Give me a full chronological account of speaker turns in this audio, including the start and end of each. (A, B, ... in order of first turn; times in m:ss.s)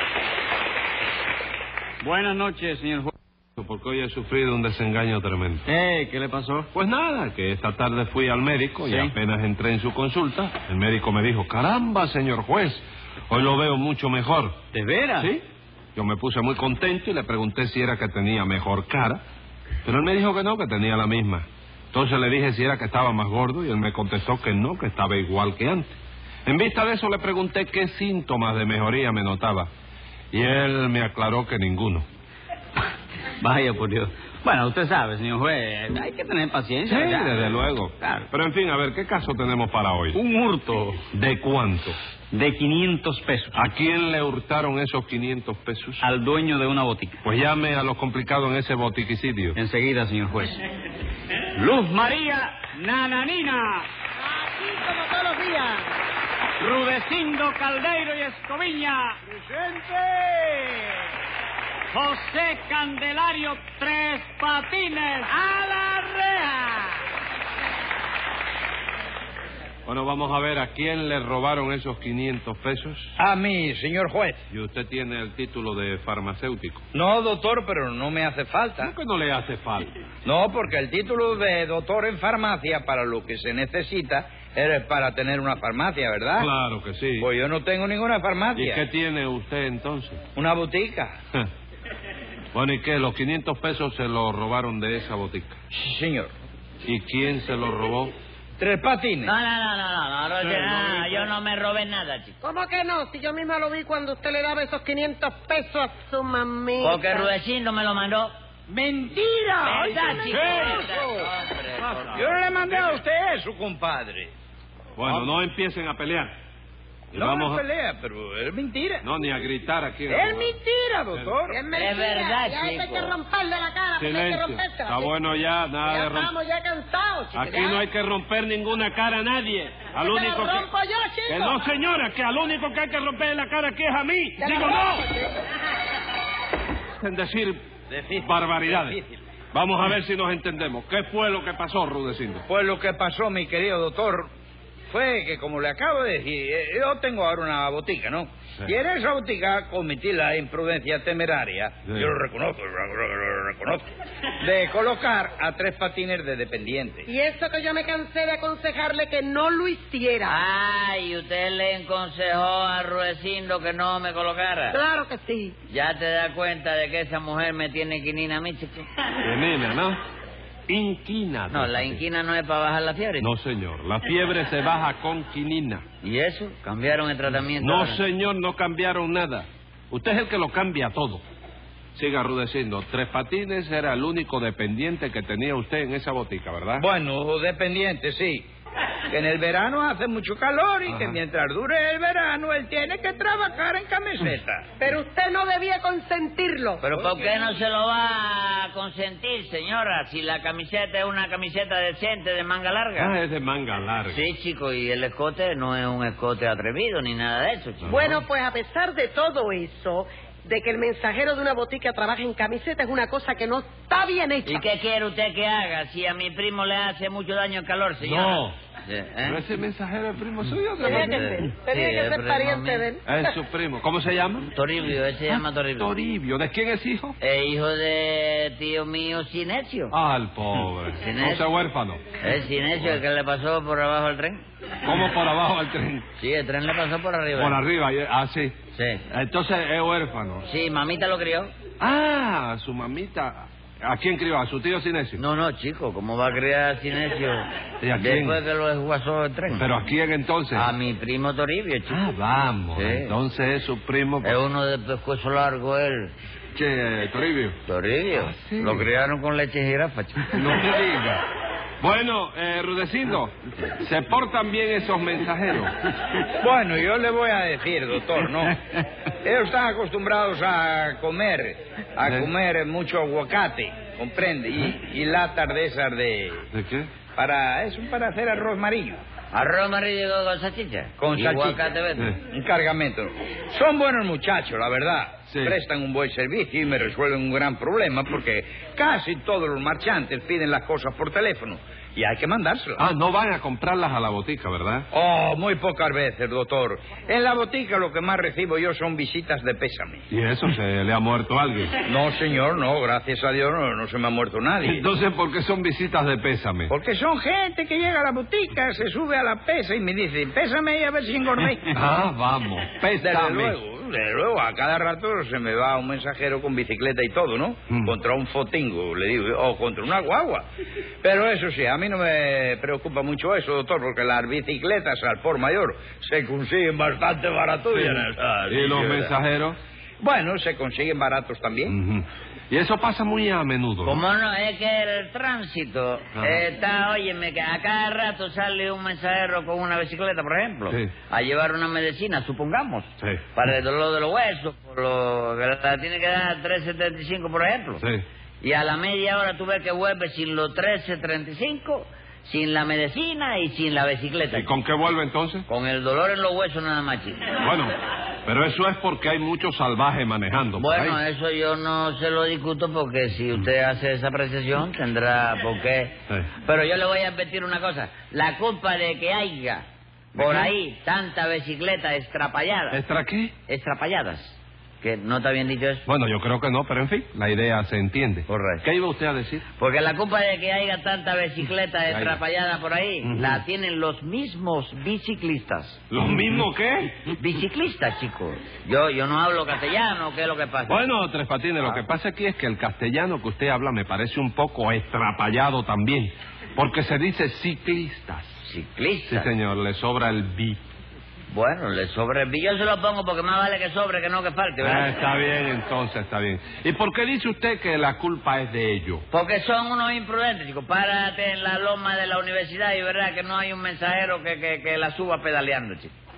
0:02.0-0:03.1 A
0:03.6-0:05.6 B
0:05.7-0:06.7 A
0:06.7-0:14.6 B
0:08.8-0:09.1 A
0:14.7-0:15.3 A
0:15.2-0:15.4 B
0:16.0-0:19.2 B
0:19.8-0:29.7 B
0:30.3-0:32.1 B
0:33.4-0:38.3 A
0:36.9-0:40.2 B
0:40.1-0:41.0 A
0:41.1-0:42.0 B
0:42.3-0:43.7 A
0:43.5-0:46.1 B
0:46.0-0:47.2 A
0:47.2-0:49.6 B
0:49.6-0:50.6 A
0:51.5-0:53.8 A
0:54.2-0:55.9 C
0:56.6-0:59.2 A
0:59.3-1:00.8 D
1:01.9-1:06.6 A
1:09.9-1:13.1 B
1:13.2-1:14.4 D
1:14.5-1:16.8 B
1:16.9-1:18.9 D
1:18.8-1:19.9 B
1:20.2-1:26.5 D
1:26.4-1:27.3 B
1:27.2-1:28.8 D
1:28.6-1:30.2 B
1:30.4-1:31.2 D
1:32.5-1:35.6 B
1:35.7-1:36.3 D
1:36.8-1:38.1 B
1:38.6-1:39.3 D
1:39.2-1:42.4 E
1:40.4-1:41.3 B
1:42.4-1:47.3 C
1:46.8-1:48.3 E
1:48.7-1:51.3 D
1:49.6-1:52.4 E
1:52.1-1:54.3 D
1:55.0-1:56.3 B
1:57.1-1:59.0 D
1:57.1-1:57.6 B
1:59.0-2:00.6 B
2:00.1-2:01.6 D
2:01.4-2:05.1 C
2:01.8-2:03.2 E
2:04.0-2:06.3 B
2:05.8-2:07.8 C
2:07.3-2:10.7 B
2:10.0-2:11.6 C
2:11.3-2:15.0 B
2:14.4-2:15.3 C
2:17.0-2:17.6 B
2:17.9-2:19.2 D
2:18.2-2:19.0 B
2:19.5-2:22.4 B
2:22.5-2:24.3 D
2:24.9-2:33.9 D
2:34.4-2:37.1 D
2:37.1-2:40.4 C
2:40.3-2:44.8 E
2:44.7-2:45.6 C
2:45.7-2:48.9 E
2:49.2-2:50.0 B
2:50.7-2:52.0 B
2:51.5-2:53.3 E
2:53.2-2:55.8 B
2:56.0-2:58.0 E
2:57.6-3:01.2 B
3:02.0-3:06.8 B
3:06.8-3:08.5 D
3:09.1-3:14.7 D
3:10.9-3:11.2 B
3:14.8-3:16.8 C
3:16.8-3:23.1 E
3:16.9-3:17.4 D
3:23.0-3:24.3 B
3:24.1-3:28.1 E
3:27.8-3:28.2 B
3:27.9-3:34.7 C
3:34.5-3:39.4 E
3:38.0-3:38.6 B
3:39.2-3:41.3 B
3:40.8-3:43.0 C
3:40.9-3:42.9 E
3:43.1-3:44.5 B
3:44.5-3:45.9 E
3:45.3-3:47.2 B
3:47.2-3:49.9 E
3:49.9-3:52.1 B
3:51.0-3:51.5 E
3:52.2-3:54.4 E
3:54.8-3:56.1 B
3:56.2-3:57.6 E
3:57.4-3:58.6 B
3:58.7-3:59.0 E
3:59.1-4:00.5 B
4:00.5-4:01.5 E
4:01.8-4:05.2 B
4:05.2-4:09.7 E
4:07.8-4:08.4 B
4:09.5-4:10.7 B
4:10.5-4:12.0 E
4:11.9-4:14.4 B
4:12.8-4:13.2 E
4:14.2-4:16.1 E
4:16.5-4:17.6 B
4:17.7-4:20.5 E
4:18.1-4:18.9 B
4:20.3-4:21.2 B
4:21.8-4:25.7 B
4:26.4-4:28.6 D
4:29.2-4:36.5 D
4:36.5-4:36.9 B
4:37.2-4:39.0 D
4:39.3-4:42.2 E
4:41.0-4:41.6 D
4:42.2-4:52.8 D
4:45.3-4:45.6 B
4:52.8-4:54.9 B
4:54.9-5:00.1 D
5:00.1-5:01.8 B
5:01.8-5:04.8 D
5:04.6-5:06.7 B
5:06.7-5:11.7 D
5:11.7-5:13.6 B
5:13.0-5:20.5 D
5:17.7-5:17.9 B
5:21.0-5:29.1 D
5:27.8-5:29.6 B
5:30.0-5:31.8 D
5:31.7-5:34.0 B
5:33.8-5:47.8 E
5:36.2-5:36.4 B
5:48.4-5:54.5 E
5:54.3-5:55.5 B
5:55.5-5:57.2 E
5:57.4-6:01.0 B
6:00.6-6:12.8 E
6:10.2-6:10.5 B
6:12.7-6:13.3 B
6:13.5-6:15.8 E
6:15.9-6:19.4 B
6:18.3-6:18.7 E
6:19.6-6:25.8 E
6:21.9-6:22.2 B
6:23.0-6:23.4 B
6:25.9-6:27.1 B
6:27.2-6:30.8 E
6:30.7-6:38.4 B
6:38.4-6:39.3 E
6:39.1-6:40.6 B
6:41.3-6:44.9 E
6:44.6-6:49.0 B
6:49.1-6:55.9 E